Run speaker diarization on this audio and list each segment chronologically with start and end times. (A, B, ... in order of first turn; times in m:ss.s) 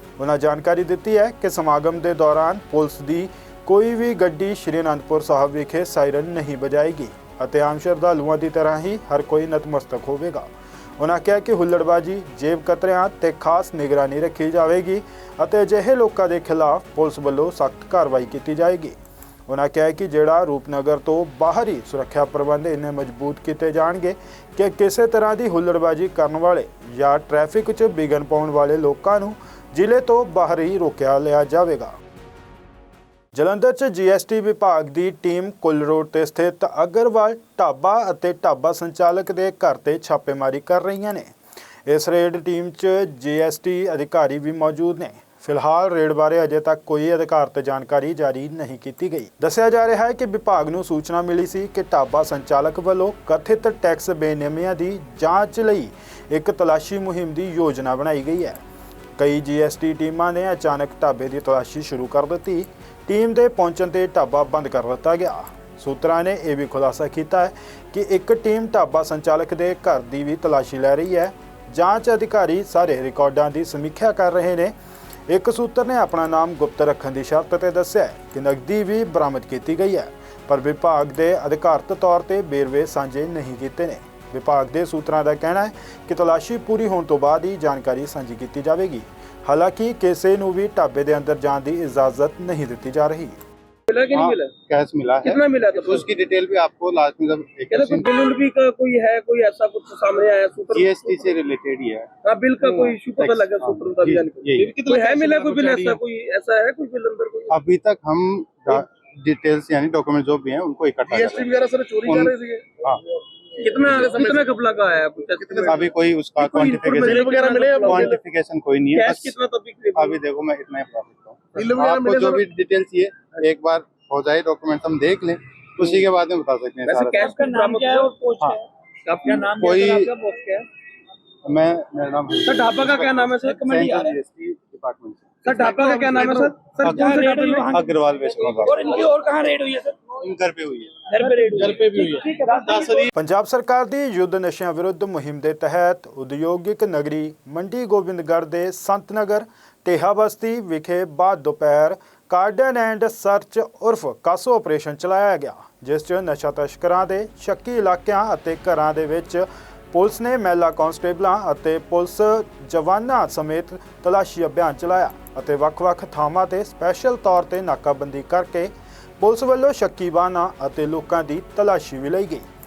0:00.2-0:18.9 A
0:19.5-0:31.9 A
0:33.3-0:41.3 A
0:41.9-0:58.6 A
0:59.2-1:14.7 A
1:15.3-1:33.4 A
1:33.9-1:34.5 B
1:34.1-1:38.1 C
1:35.2-1:36.1 B
1:37.7-1:41.2 B
1:40.7-1:42.1 C
1:42.2-1:47.6 B
1:42.6-1:45.0 C
1:47.5-1:53.0 C
1:51.1-1:52.7 B
1:53.6-1:58.2 B
1:53.8-1:54.5 C
1:55.4-1:59.3 C
1:58.9-2:00.1 B
1:59.9-2:07.3 C
2:01.5-2:02.5 B
2:06.8-2:10.7 B
2:09.6-2:10.1 C
2:11.4-2:19.2 C
2:12.4-2:14.2 B
2:15.4-2:17.9 B
2:18.6-2:19.9 B
2:20.2-2:20.9 C
2:21.1-2:23.1 B
2:21.5-2:22.1 C
2:22.7-2:23.0 C
2:23.1-2:52.4 A